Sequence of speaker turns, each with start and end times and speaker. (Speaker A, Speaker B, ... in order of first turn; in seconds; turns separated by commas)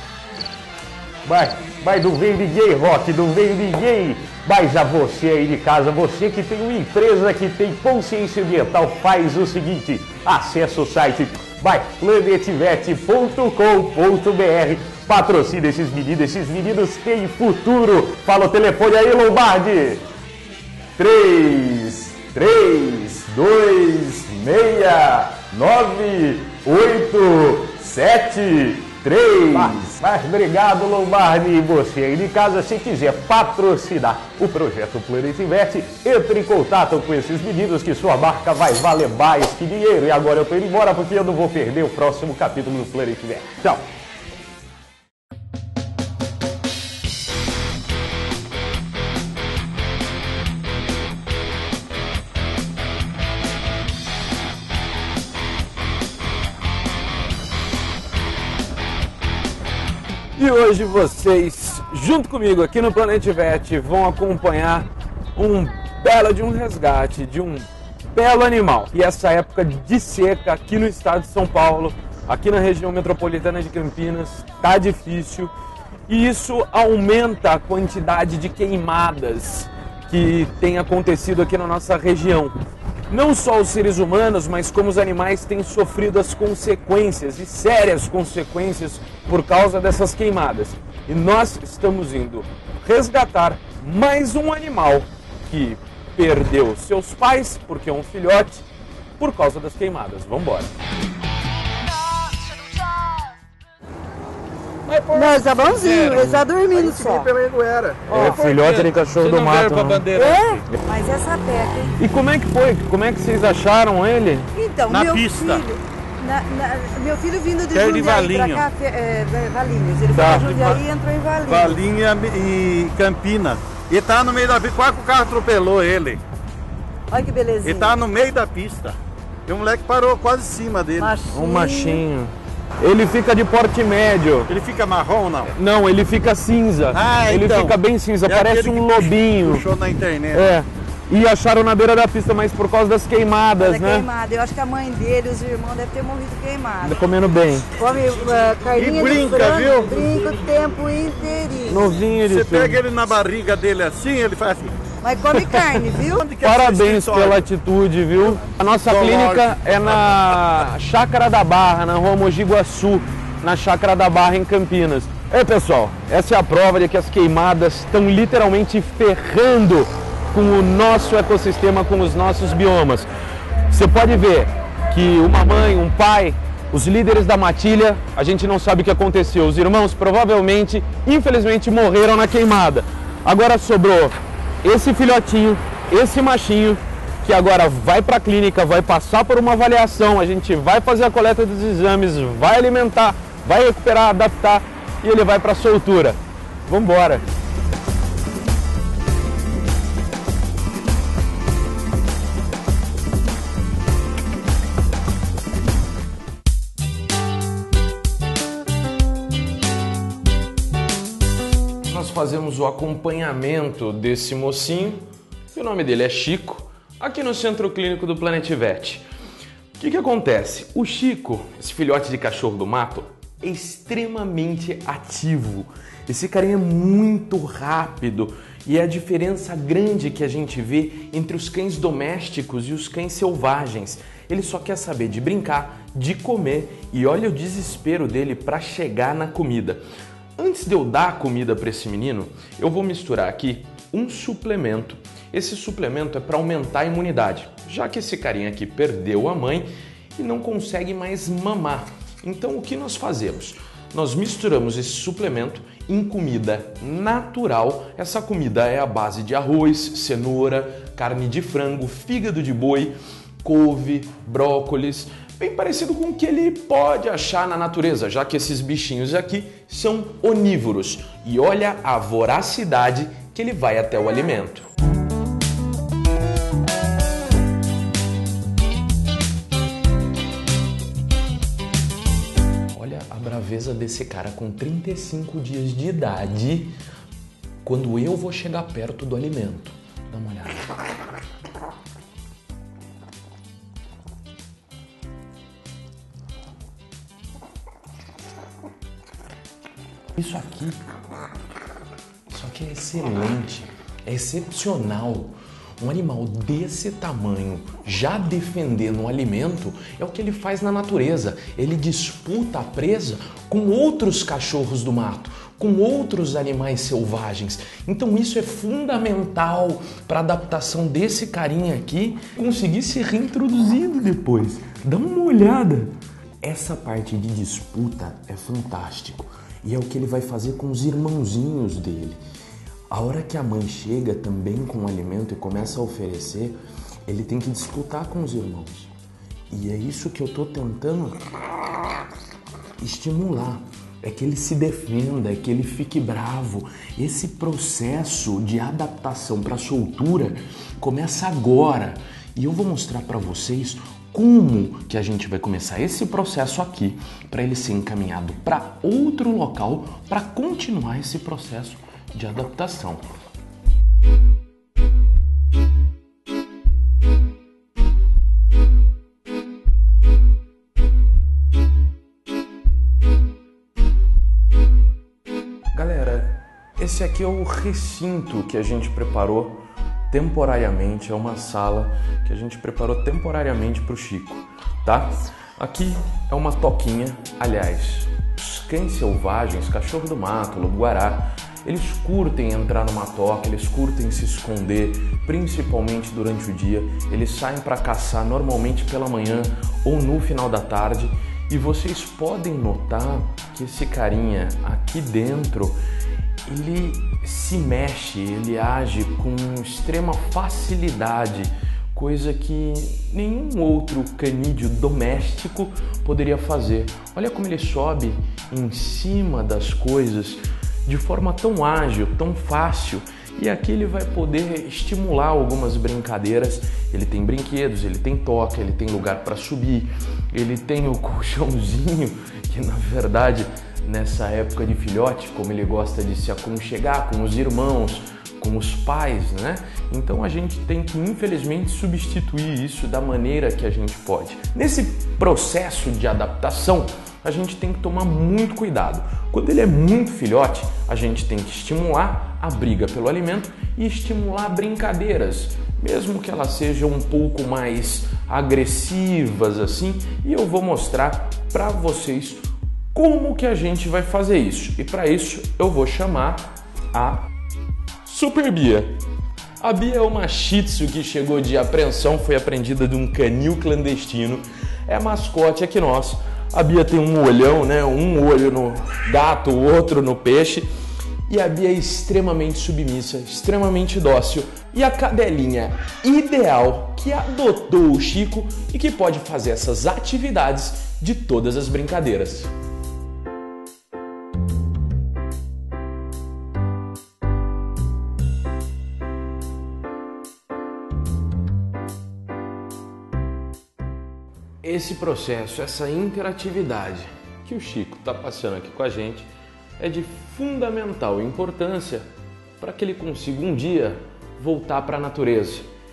Speaker A: 1.2-20.0, Speaker A: 21.0-43.8, Speaker B: 60.3-75.5, Speaker B: 76.1-82.5, Speaker B: 83.1-98.7, Speaker B: 99.2-100.7, Speaker B: 104.8-106.5, Speaker C: 105.1-107.3, Speaker D: 106.7-108.2, Speaker B: 108.1-110.7, Speaker C: 108.1-108.4, Speaker A: 108.2-108.6, Speaker C: 110.0-112.0, Speaker B: 112.0-114.5, Speaker C: 114.5-121.8, Speaker D: 114.9-115.6, Speaker D: 117.7-118.7, Speaker B: 120.1-120.5, Speaker D: 120.4-120.8, Speaker D: 121.5-126.2, Speaker C: 127.1-128.0, Speaker D: 127.6-131.2, Speaker C: 131.0-132.0, Speaker B: 131.3-134.5, Speaker D: 134.5-135.5, Speaker B: 135.5-139.7, Speaker D: 136.9-140.5, Speaker B: 140.3-144.1, Speaker C: 143.6-147.0, Speaker B: 146.8-147.7, Speaker C: 147.8-151.9, Speaker D: 148.8-149.9, Speaker B: 151.7-152.8, Speaker D: 152.2-154.8, Speaker C: 155.0-156.2, Speaker B: 155.3-155.8, Speaker D: 156.2-157.4, Speaker B: 156.4-173.1, Speaker D: 158.8-160.2, Speaker B: 173.7-197.2, Speaker B: 211.9-219.0, Speaker B: 219.8-239.8, Speaker B: 240.4-274.7, Speaker B: 282.7-286.7, Speaker B: 287.6-290.6, Speaker B: 300.1-300.8, Speaker B: 302.3-332.2, Speaker B: 332.9-336.6, Speaker B: 337.1-338.9, Speaker B: 339.5-341.2, Speaker B: 342.8-363.0, Speaker B: 375.7-405.8, Speaker B: 406.4-467.2, Speaker B: 468.0-469.0, Speaker B: 469.6-480.7, Speaker B: 481.3-492.5, Speaker B: 504.6-512.1, Speaker B: 512.6-515.7